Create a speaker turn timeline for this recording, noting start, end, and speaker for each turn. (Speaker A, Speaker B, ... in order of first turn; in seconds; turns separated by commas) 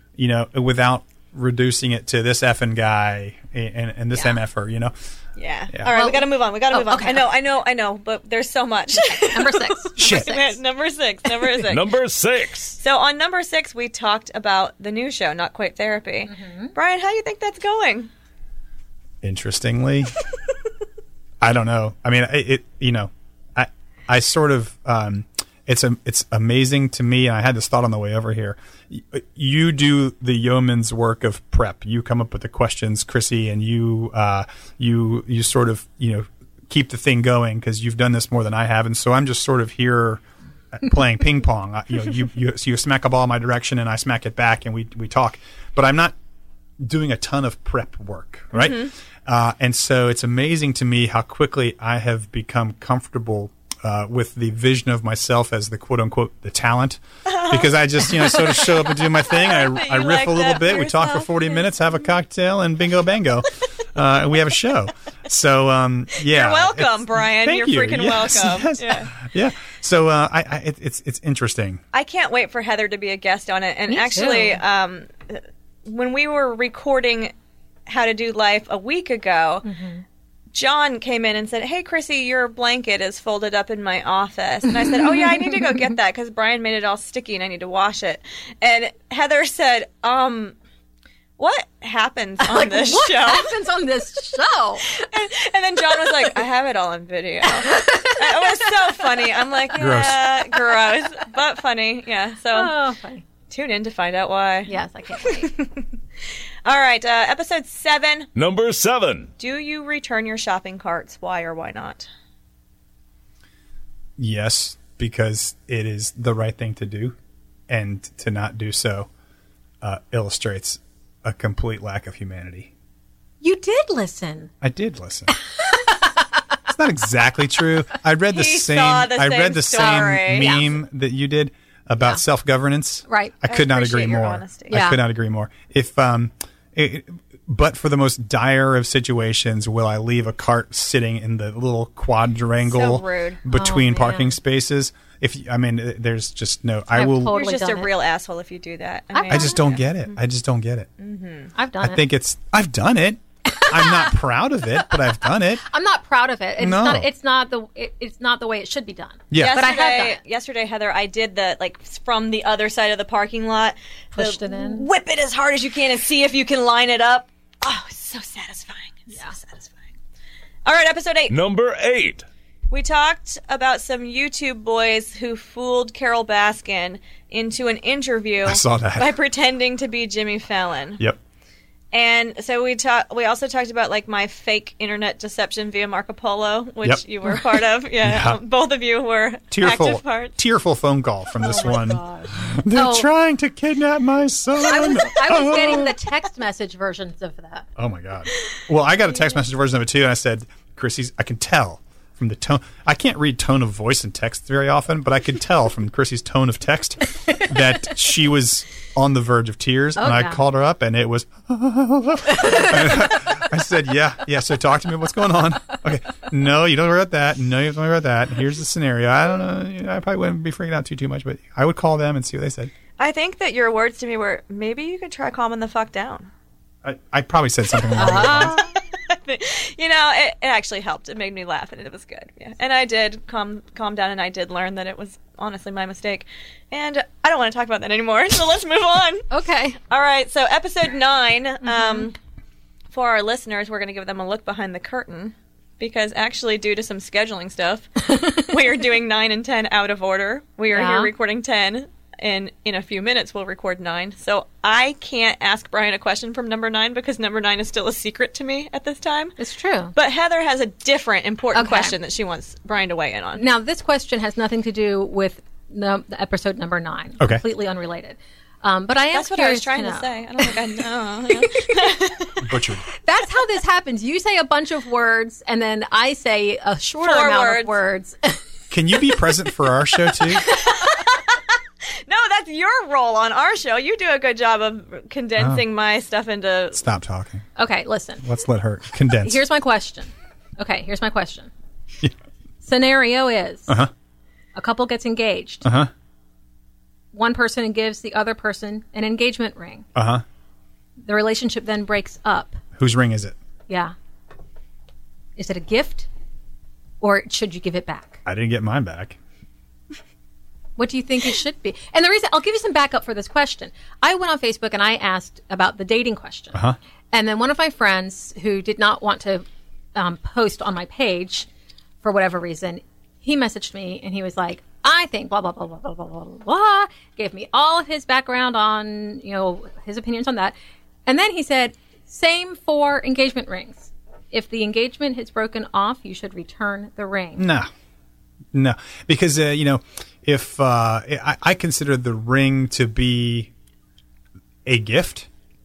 Speaker A: 0.2-4.9, Speaker B: 5.4-11.9, Speaker C: 5.9-7.3, Speaker C: 9.0-10.6, Speaker A: 10.0-10.3, Speaker D: 11.6-12.8, Speaker B: 12.8-18.1, Speaker C: 16.3-16.7, Speaker A: 19.2-20.1, Speaker A: 21.4-40.2, Speaker A: 40.7-46.1, Speaker A: 46.8-71.8, Speaker B: 48.5-48.9, Speaker B: 57.3-57.7, Speaker B: 58.4-58.6, Speaker B: 59.2-61.7, Speaker B: 66.2-69.1, Speaker B: 71.9-77.3, Speaker C: 73.9-74.6, Speaker B: 77.9-79.7, Speaker C: 79.7-80.0, Speaker B: 80.5-90.6, Speaker B: 91.4-93.5, Speaker C: 92.4-94.9, Speaker B: 94.9-102.7, Speaker C: 97.5-98.5, Speaker A: 99.8-100.3, Speaker C: 102.5-103.2, Speaker B: 103.5-105.8, Speaker C: 104.7-105.5, Speaker B: 106.7-108.3, Speaker D: 108.3-109.3, Speaker B: 109.4-112.1, Speaker A: 114.2-117.2, Speaker A: 117.7-119.1, Speaker A: 119.8-122.7, Speaker C: 123.4-124.5, Speaker A: 124.6-125.3, Speaker A: 126.7-147.4, Speaker B: 128.3-130.6, Speaker C: 129.8-130.7, Speaker C: 133.1-133.3, Speaker B: 133.5-134.8, Speaker C: 134.7-135.0, Speaker B: 142.6-143.4, Speaker C: 143.5-144.3, Speaker C: 146.9-147.9, Speaker B: 147.3-149.8, Speaker C: 149.1-149.6, Speaker A: 149.3-150.9, Speaker B: 151.0-151.5, Speaker C: 151.6-152.0, Speaker A: 151.8-155.7, Speaker C: 153.5-154.1, Speaker C: 155.6-160.2, Speaker A: 156.6-157.1, Speaker A: 159.3-159.6, Speaker B: 159.3-169.8, Speaker C: 164.2-164.9, Speaker B: 170.7-171.3, Speaker D: 171.3-172.3, Speaker B: 172.7-181.0, Speaker A: 178.4-179.1, Speaker B: 181.9-190.4, Speaker A: 188.0-188.4, Speaker A: 189.5-195.9, Speaker C: 191.4-193.1, Speaker C: 194.6-197.7, Speaker A: 197.8-222.7, Speaker C: 210.0-210.4, Speaker C: 212.4-212.7, Speaker B: 223.0-226.3, Speaker A: 226.8-228.6, Speaker B: 227.9-239.3, Speaker C: 228.0-228.7, Speaker C: 239.3-239.8, Speaker B: 239.9-242.2, Speaker C: 241.6-242.1, Speaker B: 242.9-259.4, Speaker C: 250.7-251.1, Speaker C: 259.4-259.9, Speaker B: 260.0-263.4, Speaker C: 261.6-261.9, Speaker C: 263.4-270.5, Speaker B: 269.1-272.3, Speaker C: 271.3-272.1, Speaker A: 272.4-272.9, Speaker C: 273.0-278.4, Speaker B: 277.0-277.8, Speaker A: 278.7-280.5, Speaker B: 280.5-281.4, Speaker B: 282.1-286.8, Speaker A: 285.4-285.6, Speaker A: 286.8-287.4, Speaker C: 287.6-288.2, Speaker A: 288.2-289.4, Speaker C: 289.2-291.5, Speaker C: 292.6-293.7, Speaker C: 294.6-295.7, Speaker A: 295.6-295.9, Speaker C: 297.1-299.9, Speaker A: 299.9-300.2, Speaker C: 301.1-302.6, Speaker A: 302.8-303.4, Speaker C: 303.7-303.9, Speaker C: 305.4-306.1, Speaker C: 307.0-308.2, Speaker A: 308.3-309.2, Speaker C: 310.8-321.5, Speaker C: 322.0-337.5, Speaker A: 337.4-337.7, Speaker A: 338.5-343.5, Speaker A: 344.7-345.3